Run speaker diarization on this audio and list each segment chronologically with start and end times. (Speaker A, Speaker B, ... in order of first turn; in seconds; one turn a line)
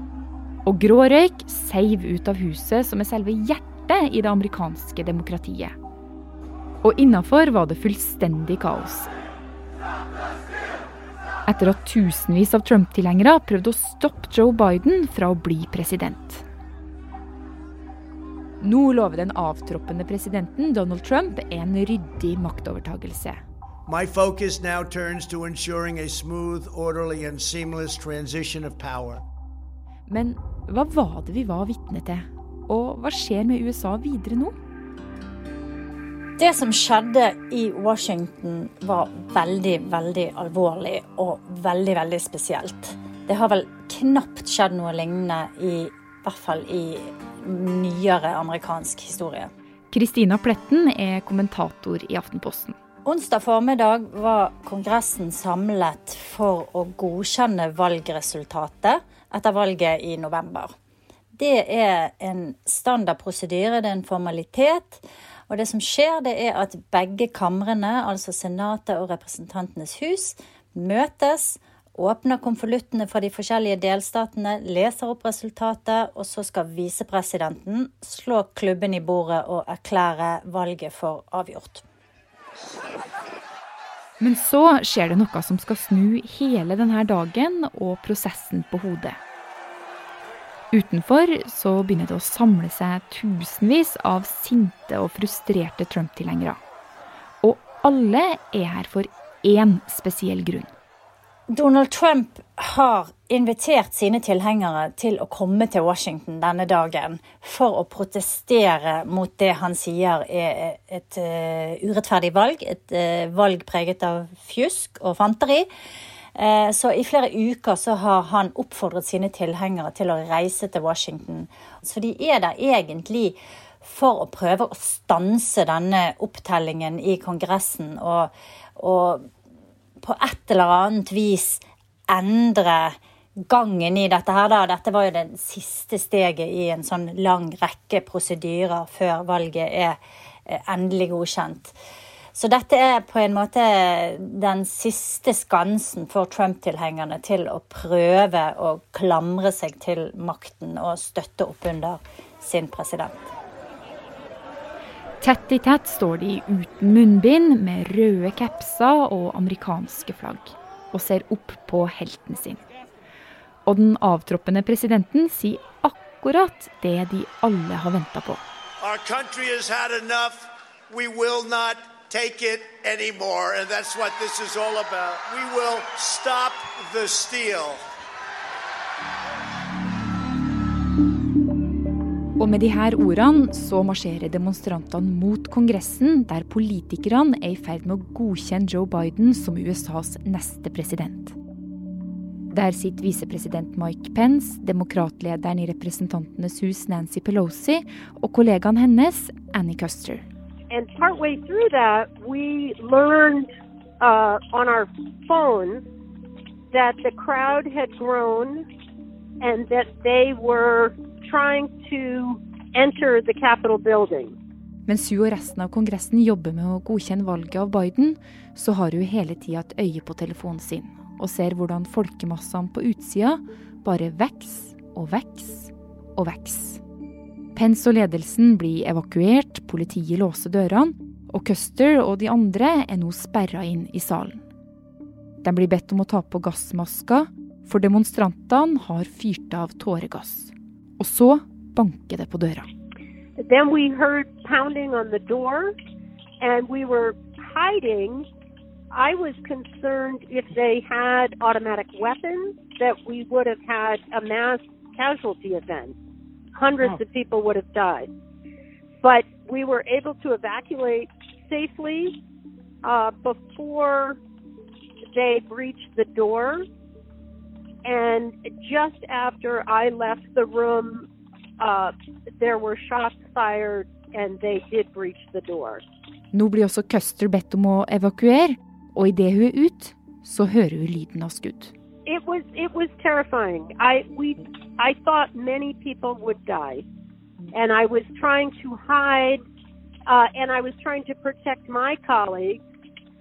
Speaker A: 0.6-5.8
Speaker A: 6.8-9.1
Speaker A: 11.5-16.4
Speaker A: 18.6-23.4
Speaker B: 23.9-29.2
Speaker A: 30.1-34.6
Speaker C: 36.4-49.5
Speaker A: 49.9-52.8
Speaker C: 53.0-60.7
Speaker C: 61.4-81.8
Speaker A: 84.2-89.2
Speaker A: 90.7-96.6
Speaker A: 97.4-100.7
Speaker C: 101.5-115.7
Speaker C: 116.4-129.2
Speaker C: 130.0-133.0
Speaker C: 133.5-141.8
Speaker C: 142.3-153.3
Speaker A: 155.2-162.6
Speaker A: 163.7-168.4
Speaker B: 168.8-177.8
Speaker A: 182.4-191.4
Speaker A: 192.5-200.2
Speaker D: 200.7-205.8
Speaker D: 206.7-208.7
Speaker D: 209.4-214.3
Speaker A: 214.9-226.8
Speaker A: 227.6-234.4
Speaker A: 235.4-242.7
Speaker D: 243.4-245.8
Speaker D: 246.4-248.3
Speaker D: 248.9-256.0
Speaker D: 256.6-258.1
Speaker D: 259.0-262.2
Speaker D: 262.8-264.2
Speaker D: 265.1-266.7
Speaker D: 267.9-271.1
Speaker D: 271.6-275.8
Speaker A: 276.3-281.7
Speaker D: 282.1-286.8
Speaker D: 287.5-289.4
Speaker D: 290.1-292.6